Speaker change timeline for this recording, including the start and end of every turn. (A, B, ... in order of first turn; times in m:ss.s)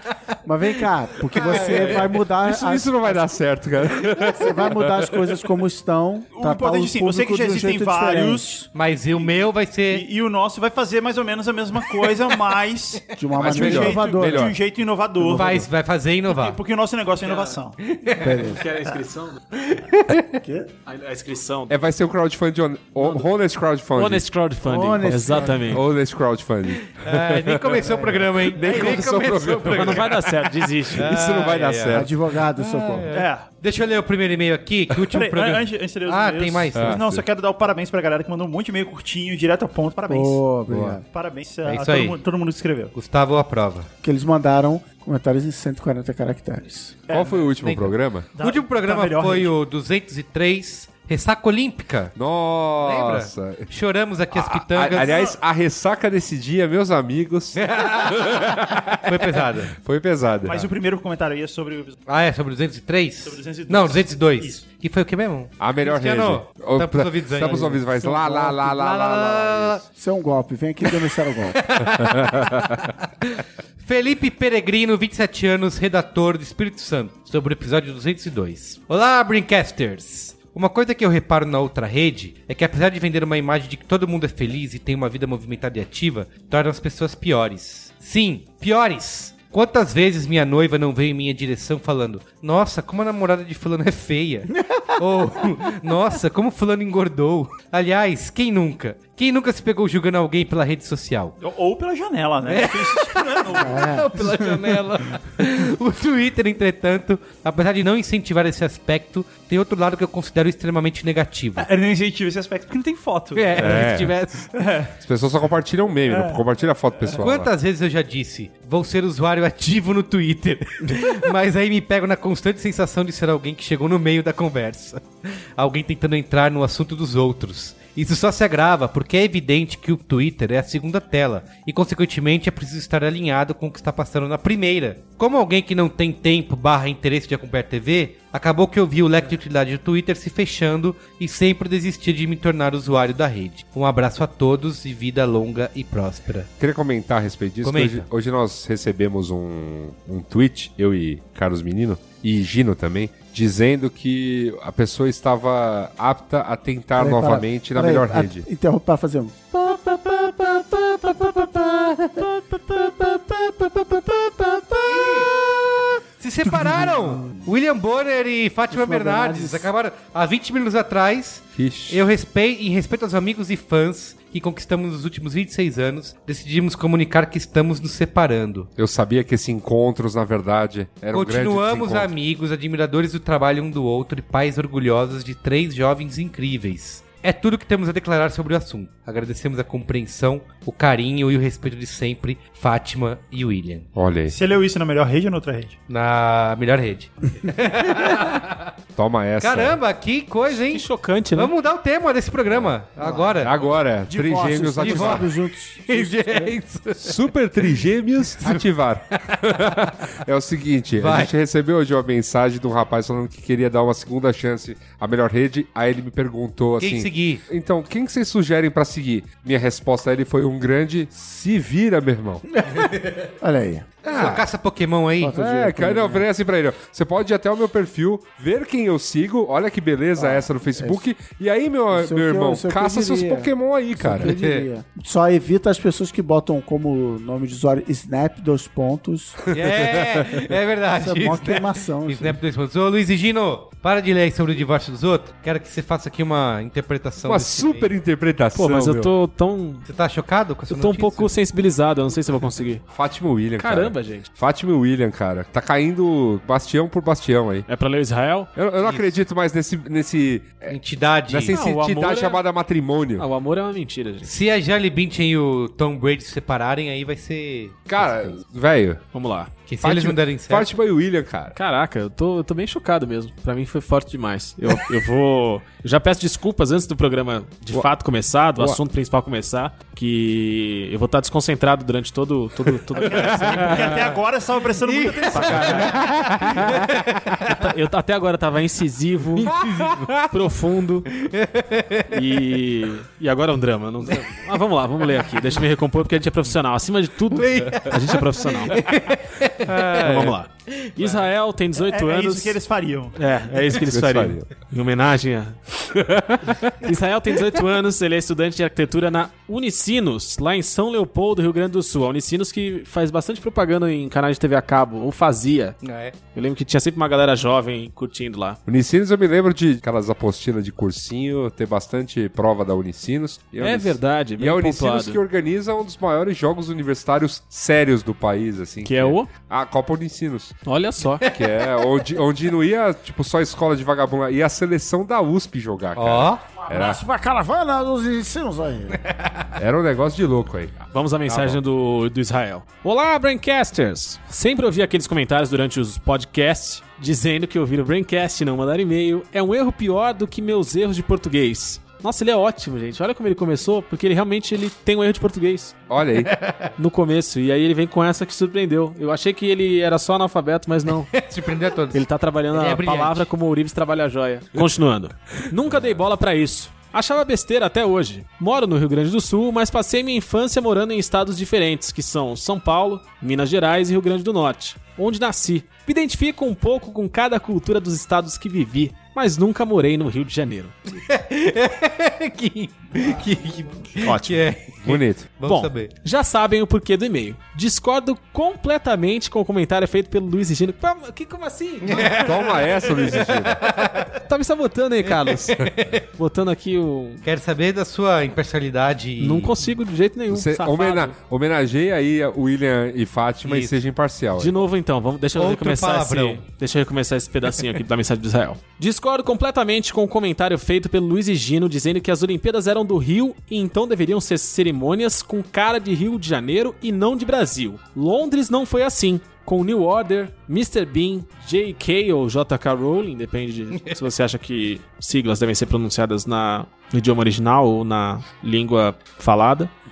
0:00.4-0:03.4 A
0:01.3-0:02.1 B
0:01.5-0:05.1 C
0:04.1-0:08.6 A
0:06.3-0:15.6 D
0:08.7-0:10.0 B
0:13.1-0:14.6 A
0:13.4-0:14.6 C
0:15.2-0:15.7 A
0:15.3-0:16.6 B
0:16.3-0:17.8 D
0:17.2-0:17.6 E
0:17.8-0:18.5 B
0:18.2-0:18.6 A
0:18.5-0:19.4 E
0:19.6-0:20.4 B
0:20.4-0:20.7 A
0:20.8-0:21.8 E
0:21.7-0:24.2 C
0:23.0-0:23.2 E
0:23.9-0:25.8 E
0:24.6-0:25.8 A
0:25.7-0:30.2 C
0:26.8-0:37.0 B
0:27.8-0:28.1 A
0:29.7-0:31.2 E
0:30.9-0:32.1 C
0:31.9-0:33.1 A
0:33.1-0:33.4 D
0:35.1-0:42.9 D
0:36.7-0:37.2 C
0:40.1-0:41.0 A
0:40.6-0:41.0 C
0:41.6-0:42.2 B
0:42.9-0:43.9 B
0:44.0-0:47.0 A
0:47.1-0:47.5 D
0:47.1-0:48.3 C
0:47.6-0:52.1 B
0:48.3-0:49.5 D
0:52.2-0:53.7 C
0:52.8-0:55.3 B
0:54.3-1:00.7 C
0:55.0-0:55.3 D
0:57.5-0:59.7 B
1:00.4-1:02.0 D
1:02.1-1:09.8 B
1:03.2-1:04.6 D
1:05.6-1:09.8 C
1:07.4-1:08.6 A
1:09.9-1:11.6 A
1:10.8-1:41.3 B
1:12.1-1:12.7 C
1:41.4-1:44.1 D
1:42.4-1:51.7 B
1:43.5-1:44.3 A
1:51.6-1:53.9 D
1:53.3-1:54.5 B
1:53.6-1:54.2 C
1:54.5-1:54.9 D
1:55.0-1:57.5 C
1:56.1-1:56.4 D
1:57.1-2:26.5 B
2:26.6-2:38.4 C
2:27.6-2:28.0 B
2:37.0-2:45.7 A
2:44.9-2:45.3 B
2:46.2-2:58.7 B
2:46.4-2:47.4 A
2:48.7-2:49.7 A
2:51.5-2:52.0 C
2:58.8-3:02.1 C
3:01.1-3:13.9 B
3:14.0-3:14.4 C
3:14.3-3:15.8 D
3:15.9-3:18.7 B
3:19.0-3:19.8 C
3:19.4-3:23.7 B
3:20.5-3:21.5 E
3:22.5-3:22.7 C
3:23.0-3:23.5 A
3:23.4-3:25.3 C
3:24.0-3:26.6 A
3:24.8-3:25.3 B
3:25.9-3:28.7 B
3:27.0-3:42.4 C
3:31.0-3:31.3 B
3:36.8-3:37.4 B
3:42.6-3:43.9 A
3:44.0-3:44.4 C
3:44.1-3:45.4 B
3:45.2-3:46.3 A
3:45.3-3:54.3 C
3:50.1-3:51.0 A
3:51.9-3:59.4 A
3:54.2-3:54.6 B
3:59.5-4:00.4 C
3:59.5-4:07.9 B
4:01.0-4:02.4 A
4:07.2-4:09.1 C
4:08.5-4:09.8 E
4:09.8-4:11.3 B
4:10.7-4:12.8 E
4:12.9-4:17.7 C
4:13.6-4:14.3 E
4:17.7-4:18.5 E
4:18.5-4:23.3 C
4:18.8-4:19.1 B
4:20.7-4:21.6 B
4:21.5-4:22.4 E
4:23.2-4:24.3 E
4:24.2-4:28.4 B
4:27.9-4:29.0 C
4:29.1-4:29.5 E
4:29.7-4:30.7 B
4:29.8-4:31.6 C
4:31.5-4:44.0 E
4:43.0-4:45.9 D
4:44.8-4:47.5 B
4:45.3-4:46.8 E
4:45.9-4:46.8 C
4:47.4-4:49.6 E
4:49.4-4:50.2 B
4:50.3-4:51.1 E
4:51.2-4:52.1 B
4:52.1-4:58.8 E
4:57.3-5:01.3 B
4:59.6-5:02.6 E
5:01.8-5:03.2 D
5:03.1-5:05.6 E
5:03.8-5:04.5 C
5:05.9-5:06.7 C
5:06.7-5:15.8 E
5:15.8-5:16.1 B
5:16.3-5:18.6 E
5:18.6-5:30.6 C
5:23.6-5:25.2 E
5:28.8-5:29.3 E
5:30.6-5:31.2 E
5:31.2-5:37.0 C
5:31.2-5:32.1 B
5:36.0-5:36.4 B
5:36.7-5:39.0 A
5:39.1-5:39.4 B
5:39.6-5:41.6 C
5:40.9-5:55.7 E
5:55.9-5:56.3 C
5:56.1-5:56.7 B
5:56.8-6:01.1 E
6:01.1-6:03.3 B
6:01.9-6:20.7 E
6:21.0-6:25.9 B
6:24.0-6:32.2 E
6:24.8-6:25.3 C
6:31.8-6:34.1 B
6:32.1-6:33.6 C
6:34.2-6:35.6 E
6:35.0-6:36.0 B
6:36.2-6:37.2 E
6:37.2-6:39.6 B
6:39.2-6:41.1 E
6:40.3-6:44.5 C
6:43.4-6:43.8 B
6:44.4-7:09.7 E
6:45.4-6:46.4 B